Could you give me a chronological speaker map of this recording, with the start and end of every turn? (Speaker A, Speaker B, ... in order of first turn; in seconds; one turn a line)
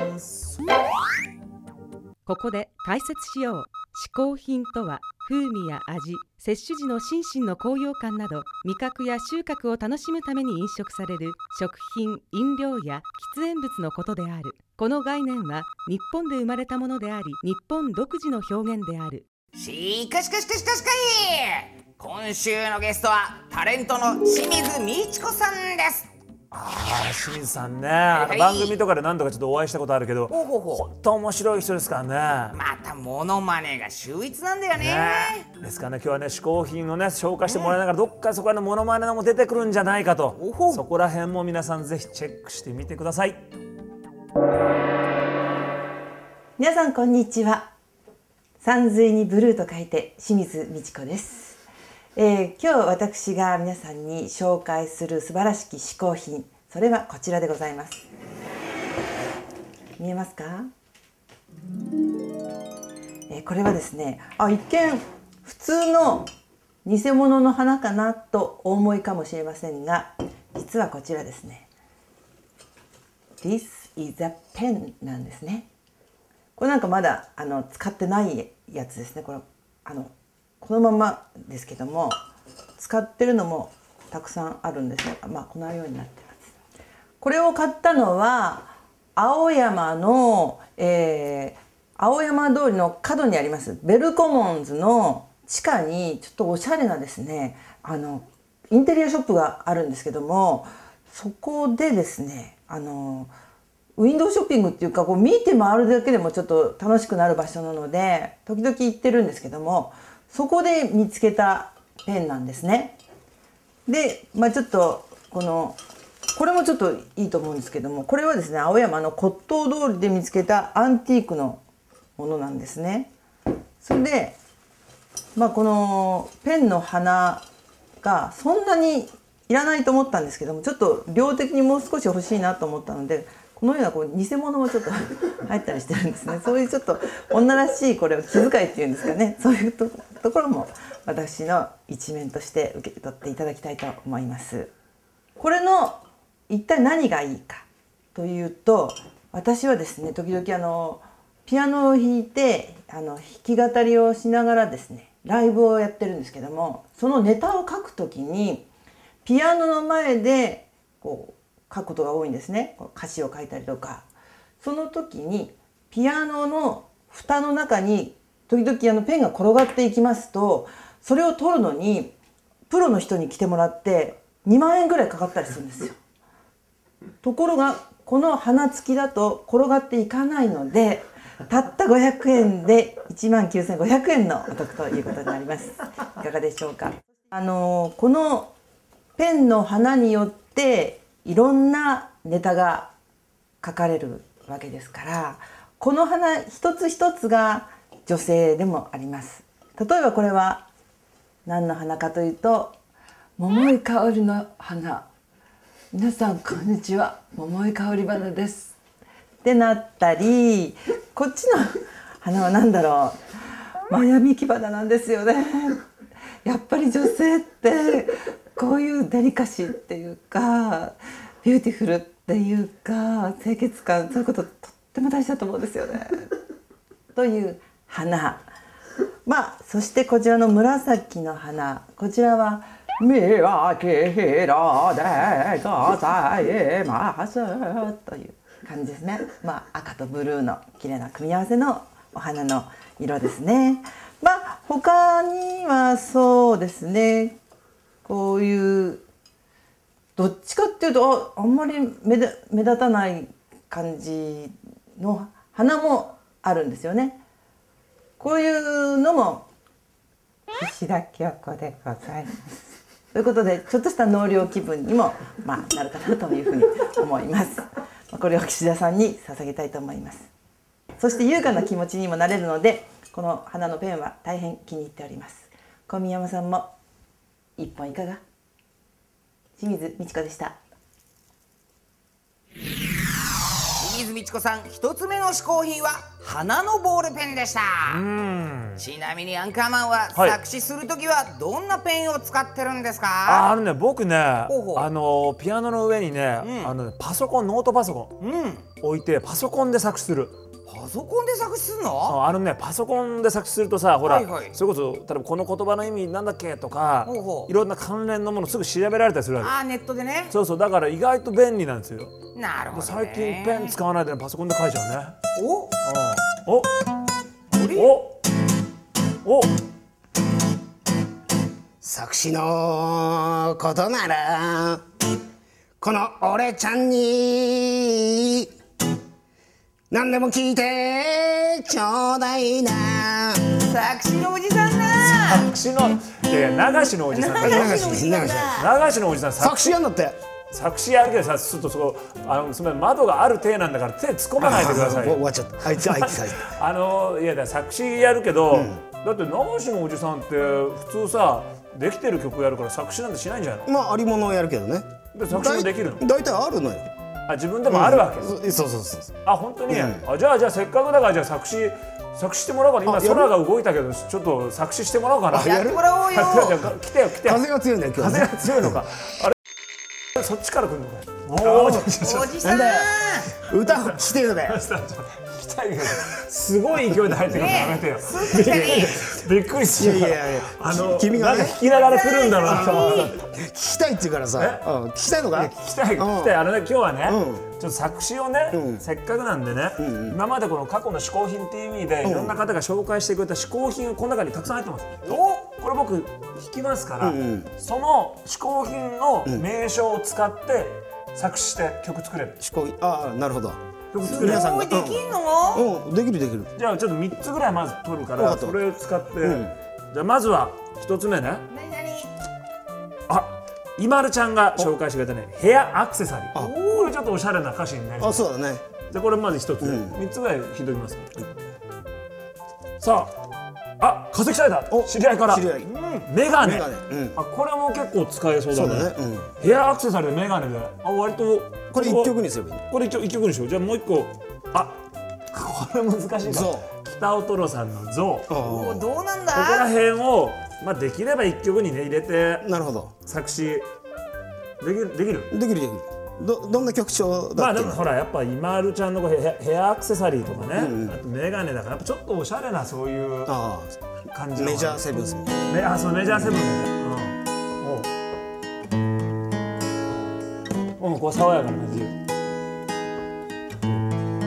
Speaker A: 2.2-19.2
Speaker B: 19.6-26.1
Speaker C: 26.5-32.6
Speaker B: 28.1-28.7
Speaker B: 30.3-30.8
Speaker B: 32.5-35.4
Speaker C: 34.8-43.4
Speaker B: 37.5-37.8
Speaker B: 40.4-40.8
Speaker D: 46.6-47.7
Speaker D: 48.6-51.6
Speaker D: 52.1-58.0
Speaker D: 60.0-60.7
Speaker D: 63.3-66.3
Speaker D: 66.8-71.7
Speaker D: 73.4-75.7
Speaker D: 76.5-82.2
Speaker D: 82.8-86.5
Speaker D: 87.2-103.3
Speaker D: 104.0-113.0
Speaker D: 113.9-115.8
Speaker D: 116.3-121.6
Speaker D: 122.2-123.1
Speaker D: 123.8-124.4
Speaker D: 125.3-127.4
Speaker D: 128.0-144.7
Speaker D: 145.4-158.7
Speaker D: 159.2-164.1
Speaker D: 164.6-172.1
Speaker D: 172.7-175.9
Speaker D: 177.2-188.5
Speaker D: 189.2-192.9
Speaker D: 193.6-200.7
Speaker D: 201.4-202.8
Speaker D: 203.4-205.1
Speaker D: 205.9-208.7
Speaker D: 209.4-213.2
Speaker D: 213.9-215.8
Speaker D: 216.4-226.2
Speaker D: 227.1-228.5
Speaker D: 229.2-247.4
Speaker D: 248.0-249.0
Speaker D: 250.2-257.2
Speaker D: 258.2-259.4
Speaker D: 260.5-270.3
Speaker D: 271.0-276.7
Speaker D: 277.6-278.2
Speaker D: 279.6-280.6
Speaker B: 283.8-288.0
Speaker C: 287.8-288.8
Speaker B: 288.8-293.5
Speaker C: 290.1-290.4
Speaker C: 293.2-298.2
Speaker B: 294.5-294.9
Speaker B: 296.4-296.7
Speaker B: 298.2-298.6
Speaker C: 298.8-300.4
Speaker B: 300.7-302.2
Speaker C: 302.1-309.5
Speaker B: 304.0-304.5
Speaker B: 307.0-307.5
Speaker B: 309.4-310.3
Speaker C: 310.3-312.1
Speaker B: 312.3-313.7
Speaker C: 312.7-315.1
Speaker B: 315.4-315.7
Speaker C: 315.8-316.7
Speaker B: 317.5-317.9
Speaker C: 317.7-318.2
Speaker C: 319.2-319.5
Speaker E: 321.8-324.8
Speaker E: 325.8-328.5
Speaker E: 329.9-333.6
Speaker B: 333.6-335.5
Speaker C: 335.0-339.8
Speaker B: 337.1-338.7
Speaker E: 337.4-338.6
Speaker E: 339.4-340.1
Speaker C: 340.5-353.7
Speaker E: 344.4-346.5
Speaker E: 348.5-348.8
Speaker E: 353.7-356.9
Speaker C: 355.1-356.0
Speaker C: 357.3-358.4
Speaker E: 357.7-359.1
Speaker C: 359.2-369.3
Speaker E: 359.7-360.1
Speaker E: 362.8-363.4
Speaker E: 365.3-365.8
Speaker B: 365.3-366.6
Speaker E: 367.2-368.8
Speaker C: 370.1-372.4
Speaker E: 371.5-371.7
Speaker B: 371.7-373.3
Speaker E: 372.4-374.6
Speaker C: 373.7-383.2
Speaker E: 377.2-377.5
Speaker B: 377.3-378.9
Speaker E: 378.4-379.1
Speaker E: 379.6-381.6
Speaker B: 381.7-383.1
Speaker E: 382.4-386.4
Speaker C: 384.4-384.6
Speaker C: 385.3-402.4
Speaker E: 387.1-387.5
Speaker E: 388.5-388.8
Speaker E: 389.8-390.1
Speaker E: 392.0-392.4
Speaker B: 395.1-395.5
Speaker E: 397.0-397.5
Speaker E: 402.4-406.5
Speaker C: 403.9-404.5
Speaker B: 404.0-405.6
Speaker C: 406.5-411.4
Speaker E: 408.2-408.6
Speaker E: 409.2-409.5
Speaker B: 411.5-412.1
Speaker C: 413.1-418.3
Speaker E: 416.3-416.7
Speaker B: 416.4-416.9
Speaker E: 418.0-418.6
Speaker C: 418.9-421.3
Speaker E: 419.6-420.0
Speaker C: 422.8-423.1
Speaker C: 423.8-432.1
Speaker E: 424.7-425.7
Speaker E: 426.4-427.2
Speaker E: 428.5-429.3
Speaker E: 431.7-432.6
Speaker C: 432.7-434.8
Speaker C: 435.3-438.3
Speaker E: 436.2-436.7
Speaker E: 438.3-438.9
Speaker B: 438.4-439.7
Speaker C: 439.3-442.5
Speaker E: 442.4-442.9
Speaker C: 443.0-443.7
Speaker C: 444.6-445.3
Speaker E: 445.3-447.8
Speaker C: 447.4-453.3
Speaker E: 450.5-451.0
Speaker E: 453.3-453.8
Speaker C: 454.1-454.8
Speaker E: 454.3-455.4
Speaker C: 455.5-457.9
Speaker E: 456.1-456.4
Speaker C: 460.8-461.9